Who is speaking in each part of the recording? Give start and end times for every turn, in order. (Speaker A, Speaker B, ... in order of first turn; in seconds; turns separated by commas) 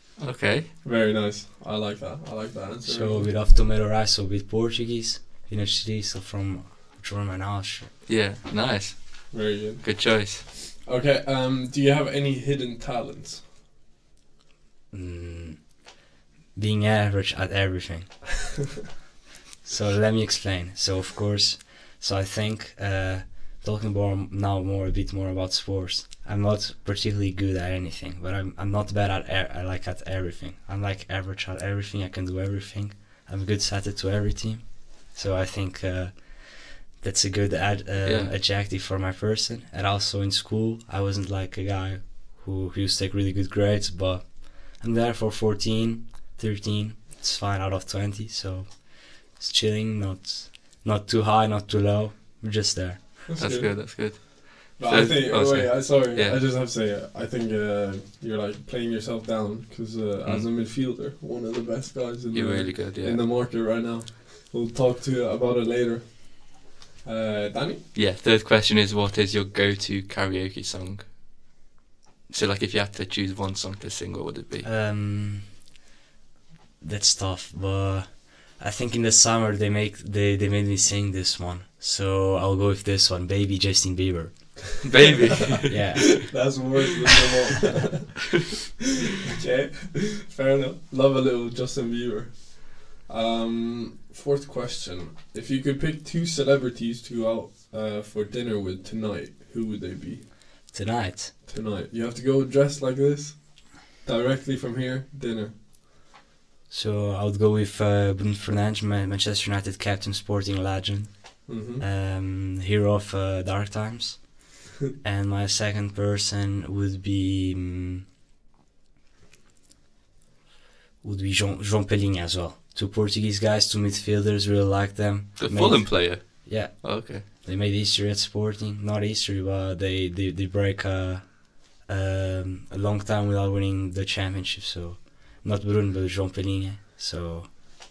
Speaker A: 0.2-0.7, Speaker B: 0.8-3.3, Speaker C: 2.8-7.9, Speaker A: 8.1-10.4, Speaker B: 9.3-13.4, Speaker C: 14.9-15.8, Speaker C: 16.5-18.3, Speaker C: 19.6-53.1, Speaker A: 38.0-38.3, Speaker B: 53.3-54.2, Speaker A: 53.4-56.4, Speaker B: 54.8-67.8, Speaker A: 62.3-63.2, Speaker A: 67.9-71.0, Speaker A: 72.3-74.7, Speaker C: 74.6-75.6, Speaker C: 76.8-84.8, Speaker A: 84.8-86.1, Speaker B: 85.3-88.3, Speaker C: 85.7-86.4, Speaker B: 89.2-100.3, Speaker C: 100.7-101.3, Speaker B: 101.4-105.6, Speaker C: 106.7-118.0, Speaker B: 111.5-111.8, Speaker C: 121.0-137.6, Speaker A: 125.4-127.2